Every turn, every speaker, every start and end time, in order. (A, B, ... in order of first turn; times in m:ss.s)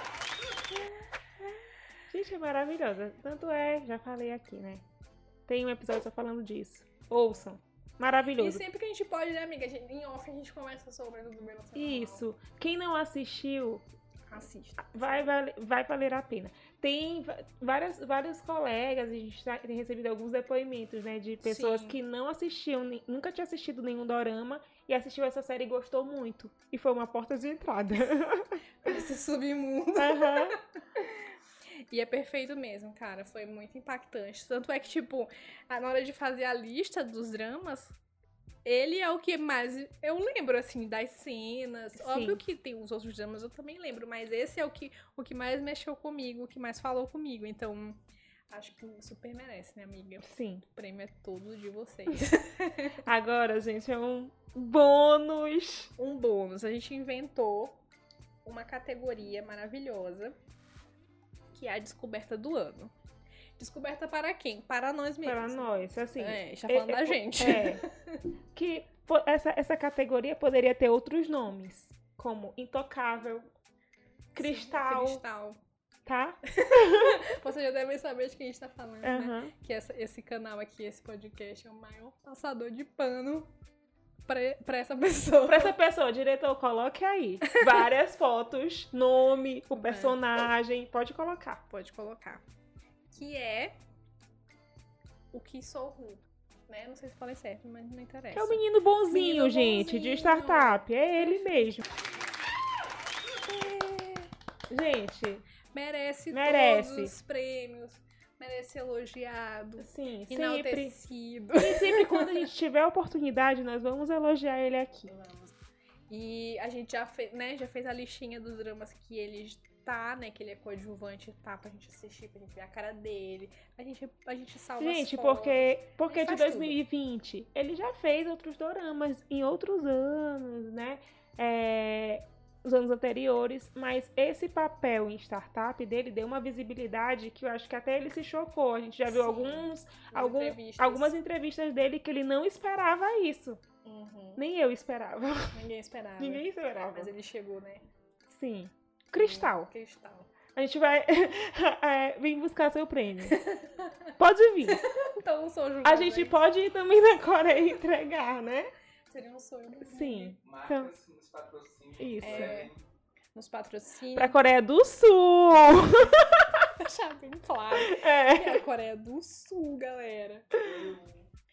0:02.1-0:04.8 A
0:05.5-0:08.6 A
0:08.4-0:12.2 B
0:11.8-0:13.8 A
0:14.3-0:15.3 B
0:14.8-0:28.6 A
0:21.4-0:22.0 B
0:28.8-0:31.1 B
0:30.0-0:30.6 A
0:31.9-0:38.0 B
0:38.6-0:53.0 B
0:42.0-0:42.4 A
0:50.2-0:50.6 A
0:53.0-0:55.9 A
0:56.0-0:57.8 B
0:58.4-1:00.3 B
1:01.5-1:02.9 B
1:03.6-1:08.2 B
1:05.2-1:07.8 A
1:08.5-1:13.5 A
1:14.3-1:15.2 A
1:14.4-1:15.6 B
1:16.0-1:17.2 A
1:16.6-1:23.5 B
1:19.0-1:19.5 A
1:24.3-1:25.8 B
1:25.5-1:31.6 A
1:27.5-1:27.8 B
1:29.7-1:30.2 B
1:31.7-1:32.4 B
1:33.1-1:33.7 B
1:35.3-1:41.8 B
1:38.3-1:41.8 A
1:43.5-1:45.4 A
1:45.7-1:52.5 B
1:46.3-1:47.1 A
1:49.8-1:50.9 A
1:51.6-1:55.1 A
1:55.1-1:55.5 B
1:56.1-2:06.8 B
2:04.8-2:23.6 A
2:19.0-2:21.2 B
2:23.8-2:24.4 B
2:24.4-2:25.6 A
2:25.5-2:27.8 B
2:26.2-2:27.1 A
2:28.3-2:29.7 A
2:29.1-2:30.3 B
2:30.5-2:33.4 A
2:33.2-2:34.1 B
2:34.2-2:34.8 A
2:34.6-2:36.4 B
2:35.8-2:38.7 A
2:39.1-2:40.4 B
2:39.8-2:40.9 A
2:40.4-2:42.8 C
2:42.0-2:42.7 A
2:42.2-2:42.7 B
2:43.3-2:44.4 B
2:44.2-2:46.5 A
2:45.6-2:50.6 B
2:47.7-2:48.6 A
2:50.6-2:51.2 C